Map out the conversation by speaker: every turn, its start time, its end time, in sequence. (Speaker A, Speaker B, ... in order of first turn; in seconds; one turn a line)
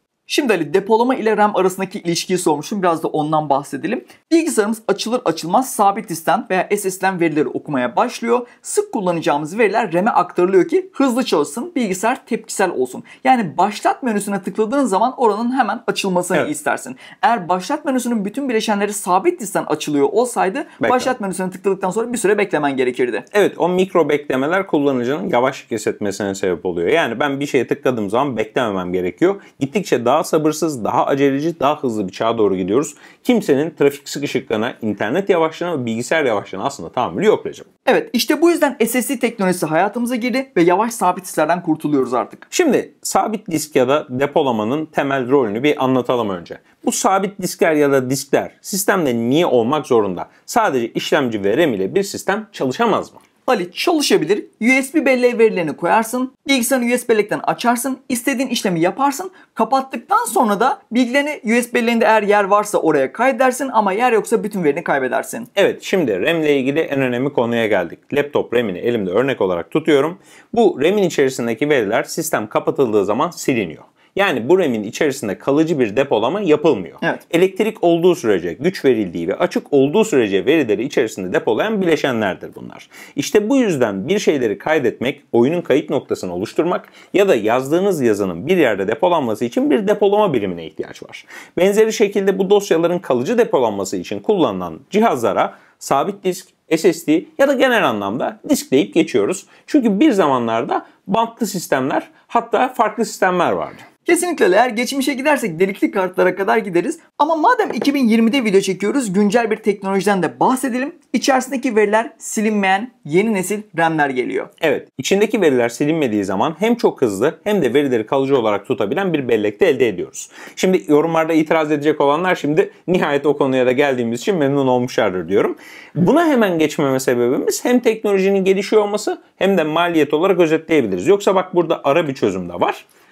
Speaker A: 0.3-23.2
Speaker B: 20.8-21.1
Speaker B: 23.3-37.7
Speaker A: 37.9-42.5
Speaker B: 42.5-53.2
Speaker A: 53.5-65.5
Speaker B: 65.5-103.8
Speaker A: 104.0-114.5
Speaker B: 114.6-132.8